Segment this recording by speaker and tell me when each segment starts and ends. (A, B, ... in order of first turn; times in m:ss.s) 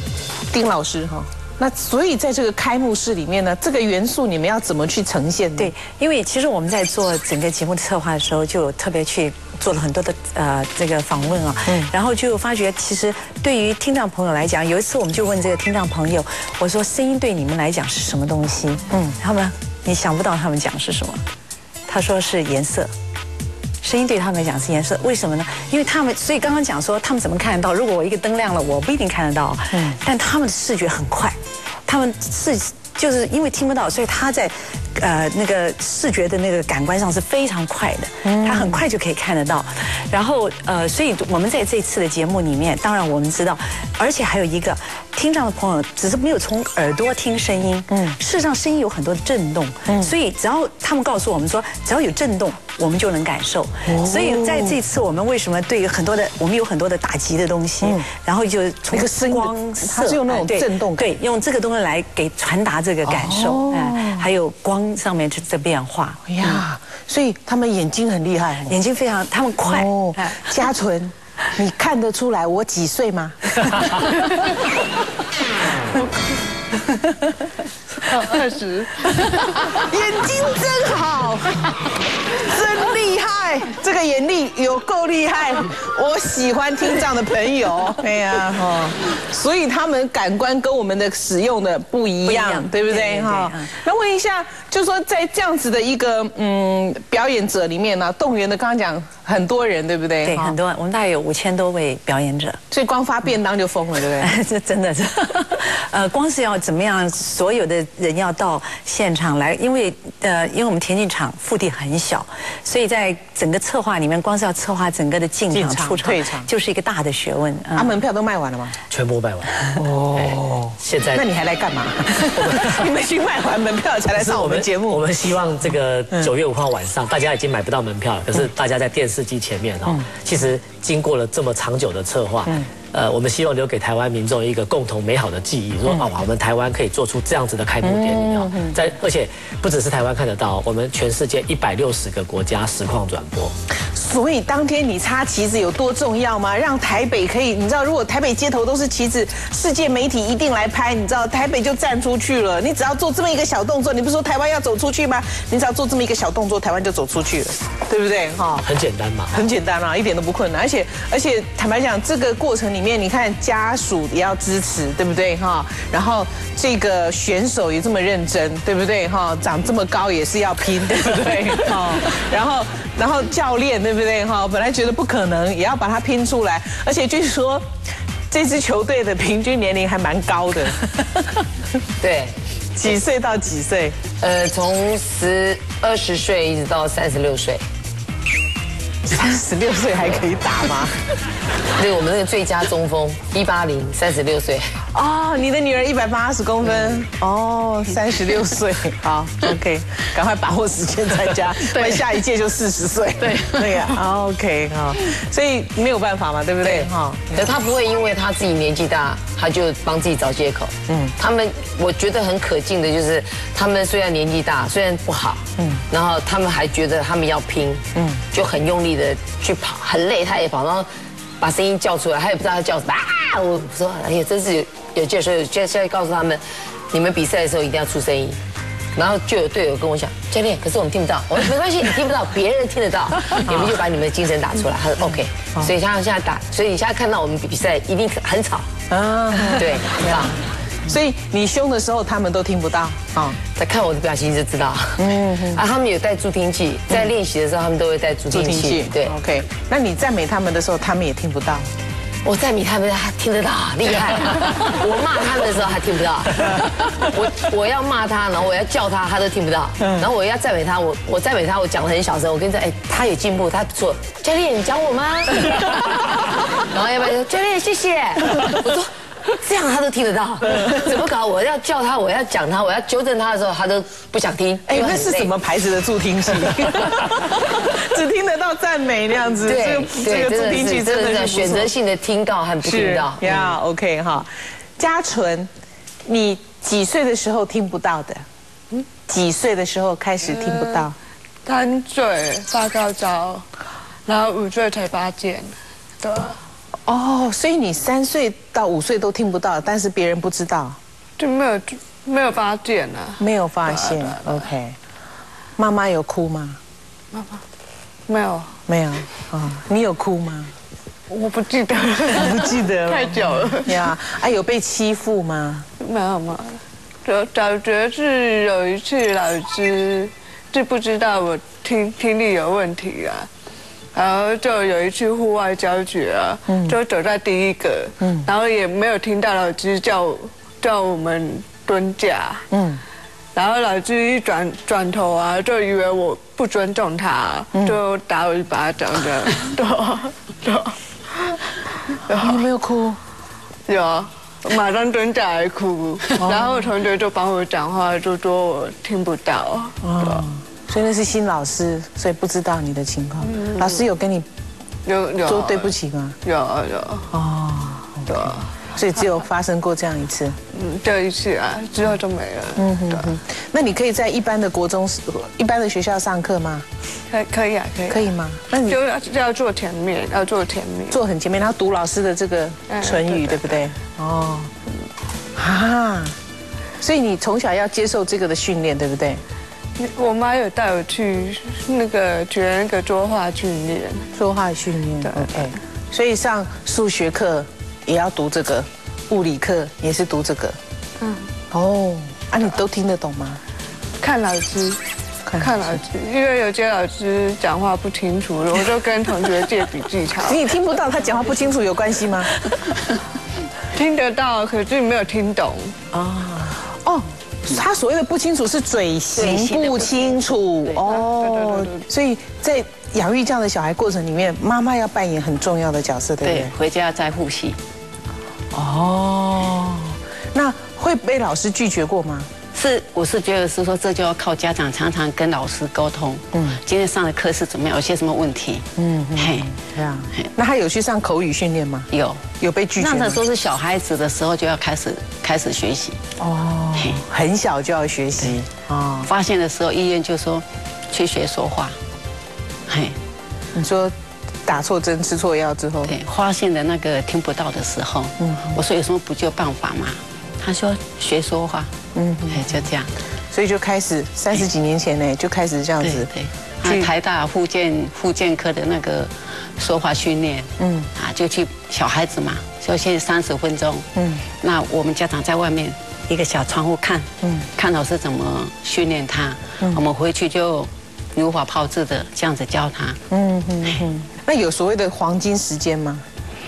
0:00.5-0:05.7 A
0:05.6-0:21.2 B
0:18.9-0:19.2 A
0:21.9-0:22.9 B
0:23.8-1:06.6 B
0:38.2-0:38.8 A
0:49.9-0:50.1 A
0:53.9-0:54.8 A
0:57.8-0:58.1 A
0:58.9-1:01.1 A
1:03.0-1:04.3 A
1:06.2-1:08.8 A
1:08.7-1:10.4 B
1:09.7-1:14.4 A
1:18.0-1:19.8 C
1:19.2-1:21.7 A
1:22.3-1:40.6 A
1:32.2-1:33.7 B
1:40.2-1:42.6 B
1:42.7-1:44.3 A
1:44.1-1:58.0 B
1:55.5-1:56.5 A
1:57.8-1:58.8 A
1:58.9-2:01.2 D
1:59.8-2:05.1 A
2:02.3-2:02.9 D
2:04.1-2:23.5 D
2:17.8-2:18.8 A
2:23.8-2:38.7 A
2:38.6-2:39.5 D
2:39.3-2:57.7 A
2:58.3-3:01.4 A
3:02.0-3:02.3 E
3:02.8-3:04.0 A
3:04.2-3:07.6 E
3:09.1-3:11.0 A
3:11.8-3:14.7 E
3:14.9-3:27.6 A
3:23.2-3:23.8 E
3:26.6-3:40.9 E
3:30.9-3:31.2 A
3:35.6-3:35.9 A
3:38.0-3:38.2 A
3:41.4-3:48.4 E
3:49.0-3:58.7 E
3:53.4-3:53.7 A
3:58.9-4:00.2 A
3:59.5-4:00.4 E
4:00.8-4:03.4 A
4:03.6-4:09.1 E
4:05.0-4:05.6 A
4:08.3-4:11.7 A
4:12.2-4:35.3 E
4:34.7-4:41.7 A
4:39.5-4:43.6 E
4:42.6-4:45.5 A
4:46.1-4:48.2 A
4:49.1-4:51.0 A
4:50.2-4:50.9 C
4:51.4-4:53.5 C
4:54.1-4:56.4 C
4:56.9-5:00.8 A
5:01.2-5:04.4 C
5:03.2-5:04.8 A
5:05.6-5:06.6 A
5:07.1-5:07.4 C
5:08.1-5:08.5 C
5:08.7-5:10.5 A
5:11.1-5:13.8 C
5:12.1-5:15.7 A
5:15.8-5:23.3 C
5:24.0-5:32.4 C
5:26.5-5:26.8 A
5:28.0-5:28.3 A
5:32.5-5:32.8 A
5:33.3-5:42.5 C
5:37.5-5:37.8 A
5:42.1-5:43.0 A
5:43.7-5:50.3 C
5:46.2-5:46.6 A
5:49.8-5:54.3 A
5:53.2-5:53.8 C
5:54.8-5:57.1 C
5:55.2-5:56.2 A
5:57.1-6:00.4 A
5:58.1-5:58.6 C
6:00.5-6:03.2 C
6:02.6-6:06.6 A
6:07.1-6:11.0 C
6:07.9-6:08.8 A
6:10.9-6:14.5 A
6:12.7-6:13.6 C
6:15.4-6:16.2 A
6:16.8-6:19.2 A
6:19.8-6:24.1 C
6:24.1-6:30.6 A
6:25.0-6:25.3 C
6:31.0-6:31.3 C
6:31.5-6:33.4 A
6:34.0-6:34.8 C
6:35.3-6:35.6 A
6:35.4-6:40.4 C
6:40.2-6:42.3 A
6:43.7-6:45.8 C
6:45.9-6:56.5 A
6:49.2-6:49.8 F
6:50.8-6:51.8 C
6:56.2-6:57.6 F
6:58.5-7:02.3 A
7:02.5-7:08.7 F
7:06.3-7:06.6 A
7:08.8-7:13.2 A
7:09.2-7:09.5 F
7:11.9-7:12.2 F
7:12.8-7:16.0 F
7:16.2-7:19.1 A
7:16.8-7:17.0 F
7:19.0-7:21.8 F
7:22.7-7:23.0 F
7:23.5-7:23.9 A
7:24.5-7:26.0 A
7:25.9-7:31.7 F
7:28.2-7:28.6 A
7:32.0-7:32.7 A
7:32.3-7:32.9 F
7:33.3-7:36.1 A
7:35.8-7:43.9 F
7:40.6-7:40.9 A
7:44.0-7:44.2 A
7:44.4-7:53.0 F
7:47.2-7:47.5 A
7:53.1-7:56.0 A